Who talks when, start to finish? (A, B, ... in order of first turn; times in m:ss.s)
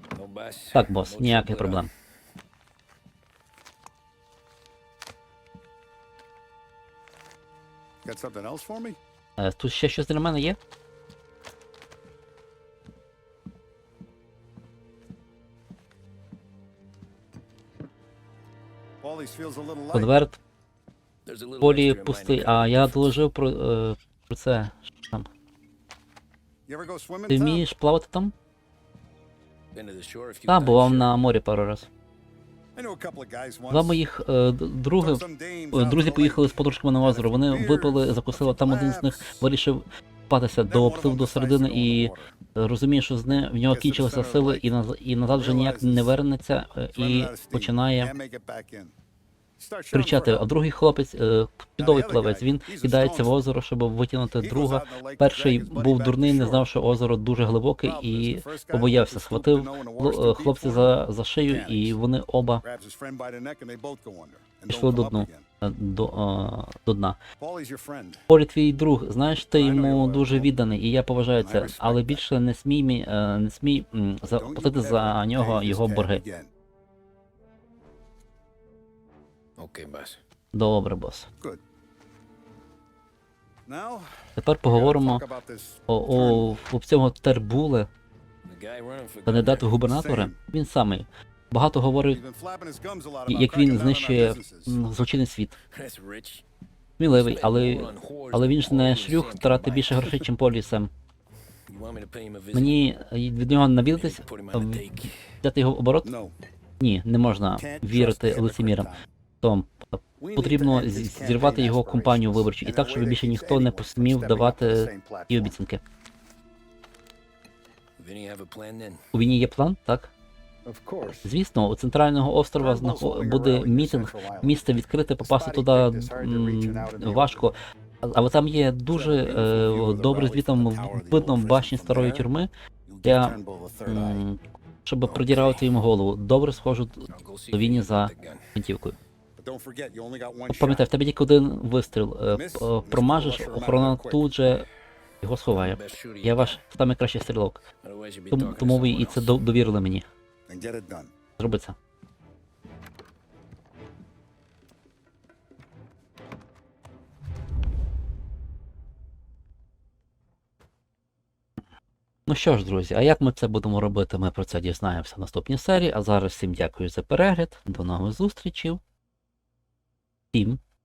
0:00.2-0:01.9 A
0:00.7-0:01.9 B
0:08.0-0:09.0 C
0:09.4-0:10.6 B
0:19.0-0:20.2 C
0:19.9-0:20.4 B
0:21.2-0:23.2 A
0:21.6-0:25.3 B
0:26.7-0:27.6 C
0:27.3-0:28.3 B
0:29.7-0:31.2 A
0:30.5-0:31.9 B
0:32.7-0:34.0 C
0:33.7-0:48.1 B
0:35.0-0:39.5 C
0:40.7-0:42.3 C
0:43.7-0:44.7 C
0:45.3-0:46.2 C
0:46.9-0:48.9 C
0:49.6-0:50.5 C
0:49.9-1:02.6 B
0:51.8-0:53.4 C
0:54.3-0:56.7 C
0:57.8-1:02.0 C
1:02.6-1:05.4 C
1:04.7-1:07.2 B
1:07.4-1:08.2 C
1:08.3-1:16.2 B
1:09.5-1:10.5 C
1:11.4-1:12.3 C
1:14.2-1:16.5 C
1:19.6-1:20.2 A
1:20.5-1:21.3 B
1:23.6-1:24.1 C
1:24.4-1:25.3 B
1:24.6-1:26.5 C
1:25.9-1:27.9 B
1:28.4-1:29.7 A
1:29.2-1:32.2 B
1:29.7-1:30.4 C
1:32.1-1:34.8 C
1:33.3-1:35.6 B
1:35.7-1:36.4 A
1:37.0-1:40.9 B
1:37.0-1:40.2 A
1:41.7-1:42.8 A
1:42.5-1:44.8 B
1:44.0-1:45.2 A
1:45.4-1:46.1 B
1:46.0-1:46.3 C
1:46.8-1:55.8 B
1:47.6-1:49.0 C
1:50.2-1:55.6 C
1:58.0-1:59.0 A
1:59.1-2:00.1 B
2:00.6-2:01.3 C
2:01.2-2:12.5 B
2:02.6-2:04.6 C
2:05.2-2:07.5 C
2:08.9-2:12.3 C
2:12.9-2:14.2 C
2:13.0-2:19.0 B
2:15.0-2:15.7 A
2:17.1-2:18.5 A
2:19.4-2:20.9 C
2:20.5-2:24.7 B
2:22.3-2:24.3 C
2:25.2-2:27.6 B
2:25.5-2:26.6 A
2:27.8-2:29.4 A
2:28.3-2:30.1 B
2:30.5-2:31.1 C
2:31.4-2:31.8 B
2:42.3-2:48.8 B
2:50.3-2:50.6 B